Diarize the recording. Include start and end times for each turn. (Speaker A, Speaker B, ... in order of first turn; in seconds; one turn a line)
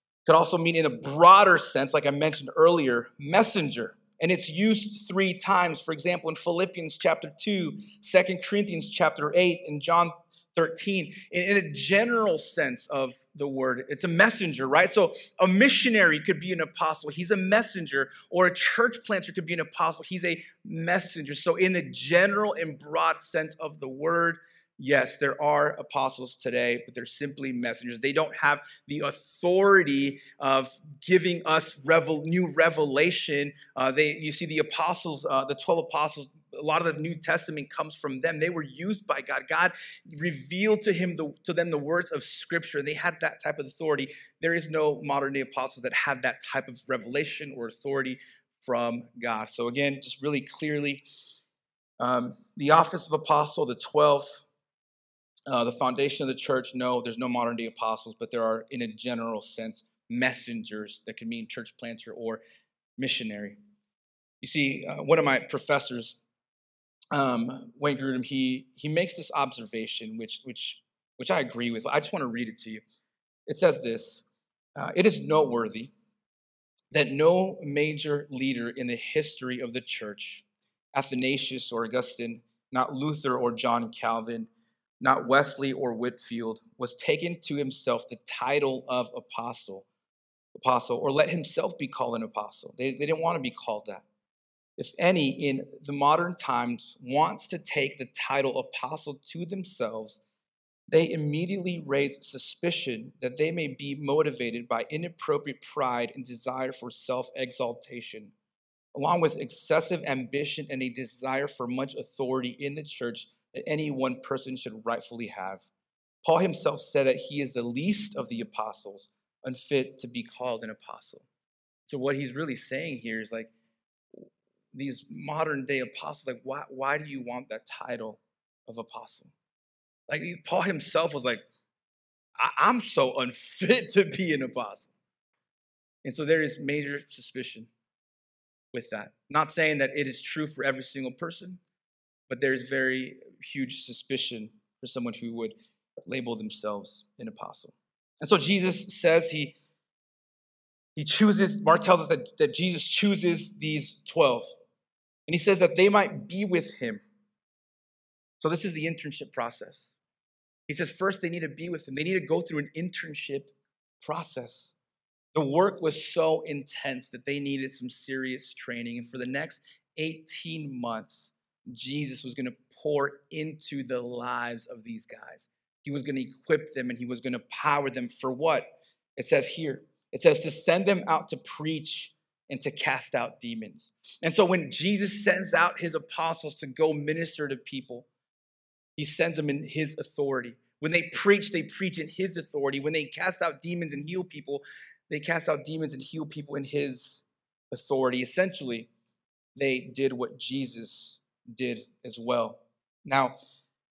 Speaker A: 0.3-51.0
Speaker A: 52.0-54.4
Speaker A: 55.5-62.4
Speaker A: 63.0-63.6
Speaker A: 64.4-66.2
Speaker A: 67.1-72.8
Speaker A: 73.5-74.2
Speaker A: 74.8-75.9
Speaker A: 76.9-84.5
Speaker A: 85.0-89.9
Speaker A: 90.5-94.1
Speaker A: 94.8-100.2
Speaker A: 100.9-108.3
Speaker A: 108.9-115.7
Speaker A: 116.2-121.3
Speaker A: 121.9-123.5
Speaker A: 124.2-129.3
Speaker A: 130.1-131.4
Speaker A: 132.4-134.9
Speaker A: 136.0-137.7
Speaker A: 138.7-141.6
Speaker A: 142.3-145.6
Speaker A: 146.1-149.6
Speaker A: 151.0-154.5
Speaker A: 155.3-157.0
Speaker A: 158.4-159.9
Speaker A: 160.7-164.7
Speaker A: 165.3-188.1
Speaker A: 189.0-198.9
Speaker A: 199.6-203.4